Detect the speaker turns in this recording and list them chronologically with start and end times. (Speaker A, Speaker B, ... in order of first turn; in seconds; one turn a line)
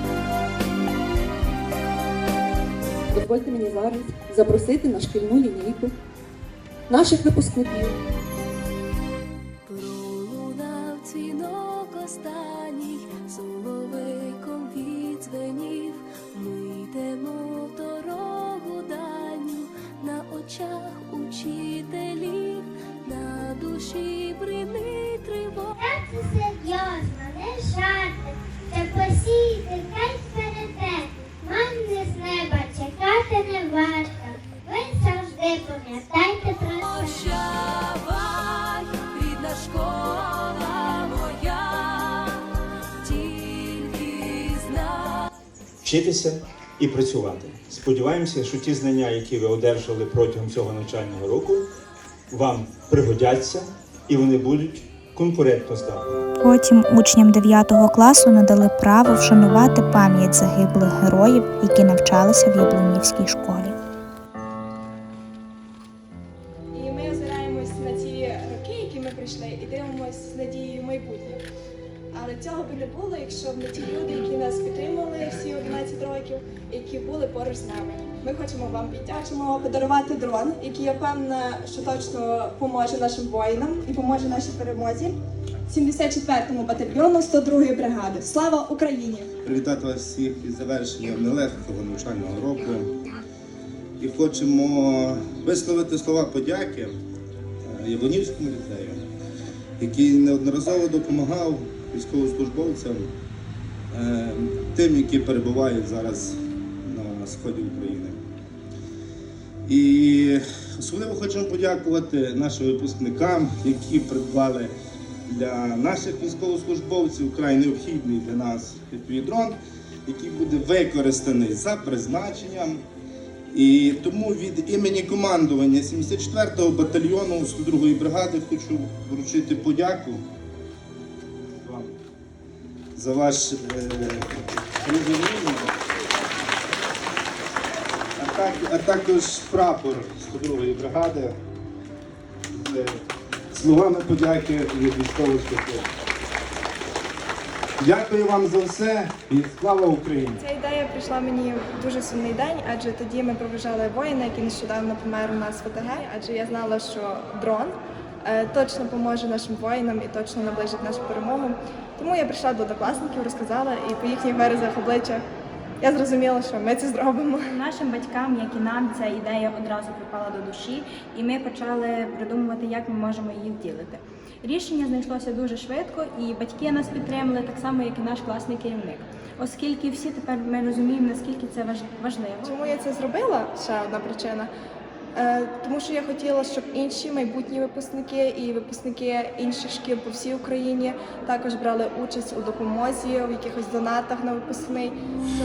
Speaker A: 3.1-5.9
Speaker A: 6.9-8.0
Speaker B: 9.7-25.7
Speaker C: 25.8-37.2
Speaker B: 36.4-42.4
Speaker B: 43.0-45.3
Speaker D: 45.8-51.7
Speaker D: 52.3-56.2
Speaker E: 56.4-63.8
Speaker F: 66.7-71.4
Speaker F: 72.1-85.1
Speaker F: 85.7-89.3
Speaker G: 89.4-92.9
Speaker G: 94.0-97.0
Speaker G: 97.7-99.1
Speaker G: 99.8-103.1
Speaker G: 103.9-108.2
Speaker G: 109.7-114.7
Speaker G: 115.3-122.8
Speaker G: 123.5-130.2
Speaker G: 131.6-131.9
Speaker G: 133.0-135.7
Speaker G: 138.2-141.3
Speaker G: 142.5-143.0
Speaker G: 143.5-145.9
Speaker G: 147.8-150.4
Speaker F: 150.4-165.2
Speaker F: 165.8-167.4
Speaker H: 167.5-182.9
Speaker F: 182.4-184.5
Speaker F: 185.2-194.9